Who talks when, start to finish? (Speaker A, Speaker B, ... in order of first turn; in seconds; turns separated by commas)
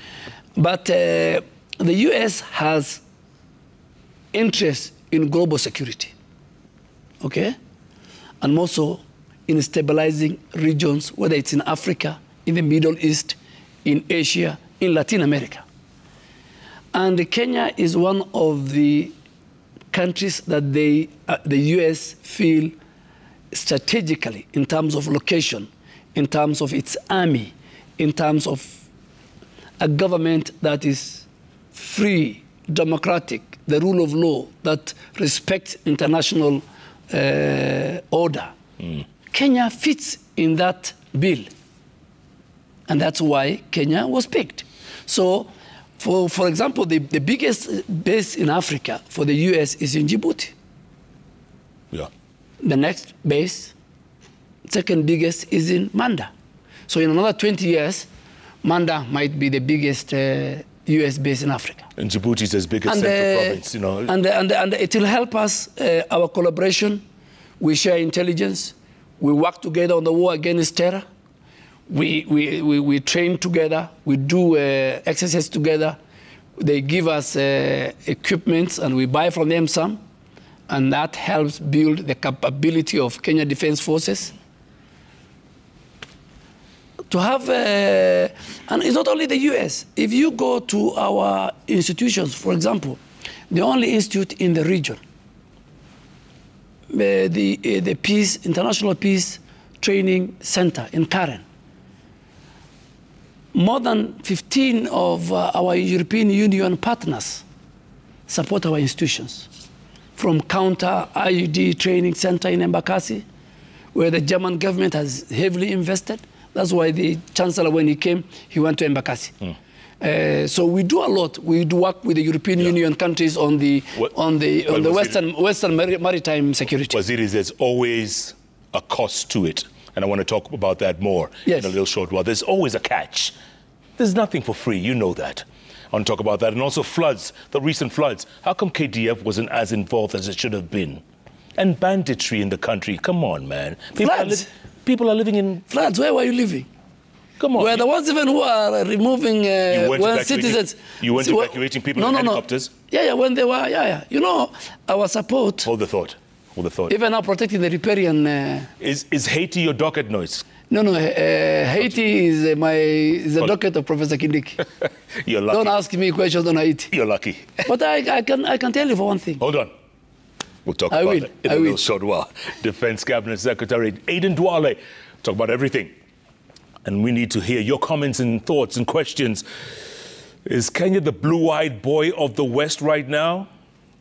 Speaker A: 0.6-3.0, Speaker A: 4.3-6.1, Speaker A: 7.2-7.5, Speaker A: 8.4-15.6, Speaker A: 16.9-19.1, Speaker A: 19.9-22.7, Speaker A: 23.5-28.8, Speaker A: 29.8-38.5, Speaker A: 39.3-41.5, Speaker A: 42.9-50.5, Speaker A: 52.6-53.7, Speaker A: 54.7-56.3, Speaker A: 56.9-58.1, Speaker A: 58.6-61.9, Speaker B: 62.0-64.1, Speaker A: 62.8-67.0, Speaker A: 67.6-71.0, Speaker A: 71.9-76.0, Speaker A: 76.6-80.0, Speaker A: 80.7-84.3, Speaker A: 87.1-95.0, Speaker A: 96.9-101.4, Speaker A: 103.5-107.5, Speaker A: 108.3-109.5, Speaker A: 110.2-113.2, Speaker A: 113.9-119.3, Speaker A: 120.0-127.0, Speaker B: 124.7-125.2, Speaker B: 126.9-133.3, Speaker A: 131.5-131.7, Speaker B: 134.0-141.0, Speaker B: 141.6-145.6, Speaker A: 144.0-144.5, Speaker A: 145.7-146.7, Speaker B: 147.4-147.8, Speaker A: 147.6-155.7, Speaker B: 149.7-152.7, Speaker B: 155.6-156.9, Speaker A: 156.9-158.7, Speaker B: 158.8-160.5, Speaker A: 160.7-164.7, Speaker B: 165.2-165.7, Speaker A: 165.5-166.9, Speaker B: 166.9-167.6, Speaker A: 167.6-169.4, Speaker B: 169.4-169.7, Speaker B: 170.7-175.9, Speaker A: 170.9-171.8, Speaker B: 176.8-179.4, Speaker B: 180.5-183.5